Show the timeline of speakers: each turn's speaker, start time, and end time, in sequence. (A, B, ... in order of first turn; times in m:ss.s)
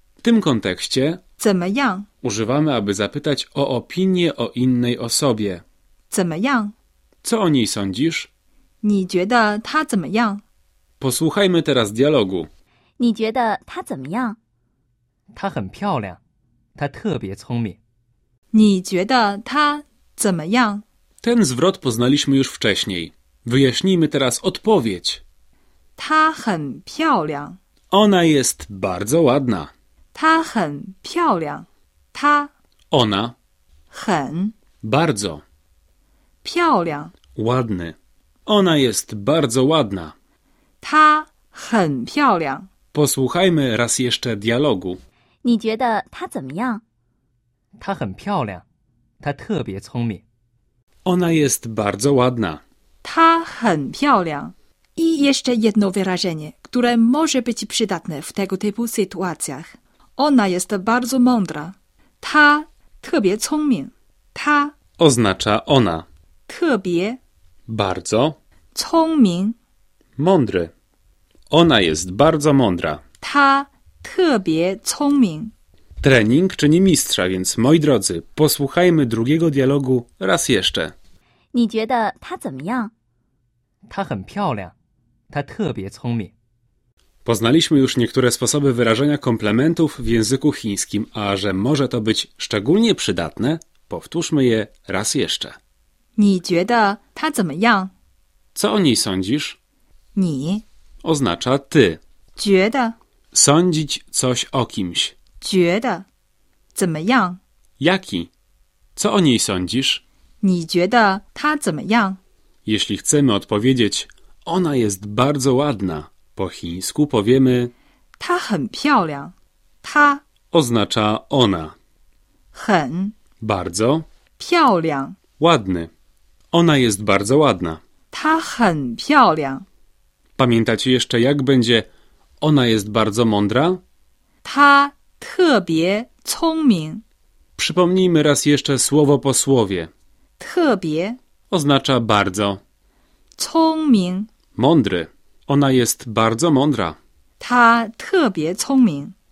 0:00.2-0:01.2 A
0:01.4-0:02.1 B
0:02.2-0:05.6 A
0:06.1-0:06.8 B
0:07.2-0:08.3 A
0:08.8-0:10.4 B
0:11.0-0:12.5 A
0:13.0-0:14.4 C
0:15.3-0:16.2 D
0:16.8-0:17.8 D
0:18.5-0:20.8 B
0:21.2-0:25.2 A
0:26.0-0:27.6 B
0:27.9-0:29.7 A
0:30.1-0:32.5 B
0:32.9-0:33.3 A
0:33.9-0:34.6 B
0:34.8-0:35.4 A
0:36.4-0:37.1 B
0:37.4-0:40.1 A
0:40.8-0:42.7 B
0:42.9-0:45.0 A
0:45.4-0:46.8 C
0:47.8-0:48.6 D
0:49.2-0:50.2 D
0:51.0-0:52.6 A
0:53.0-1:04.8 B
1:05.0-1:06.0 A
1:06.5-1:07.2 B
1:07.7-1:08.4 A
1:08.7-1:09.6 B
1:10.2-1:10.7 A
1:11.5-1:13.0 A
1:13.2-1:15.5 B
1:16.0-1:20.9 A
1:21.5-1:22.9 C
1:23.9-1:24.7 D
1:25.3-1:26.3 D
1:27.2-1:35.6 A
1:36.2-1:37.9 B
1:38.6-1:39.6 A
1:40.1-1:40.6 B
1:41.0-1:42.0 A
1:42.4-1:43.0 B
1:43.3-1:45.1 A
1:45.4-1:46.1 B
1:46.7-1:47.4 B
1:47.8-1:48.3 A
1:49.0-1:50.0 A
1:50.4-1:52.2 B
1:52.7-1:57.7 A
1:58.2-2:00.2 B
2:00.5-2:01.7 A
2:02.5-2:03.1 B
2:03.4-2:04.0 A
2:04.4-2:05.2 B
2:05.4-2:05.9 A
2:06.5-2:07.8 A
2:08.1-2:09.6 B
2:10.4-2:11.9 A
2:12.4-2:13.8 A
2:14.4-2:17.0 B
2:17.6-2:19.9 A
2:20.4-2:21.2 B
2:21.5-2:22.6 A
2:23.4-2:24.3 B
2:24.6-2:27.0 A
2:27.4-2:29.1 B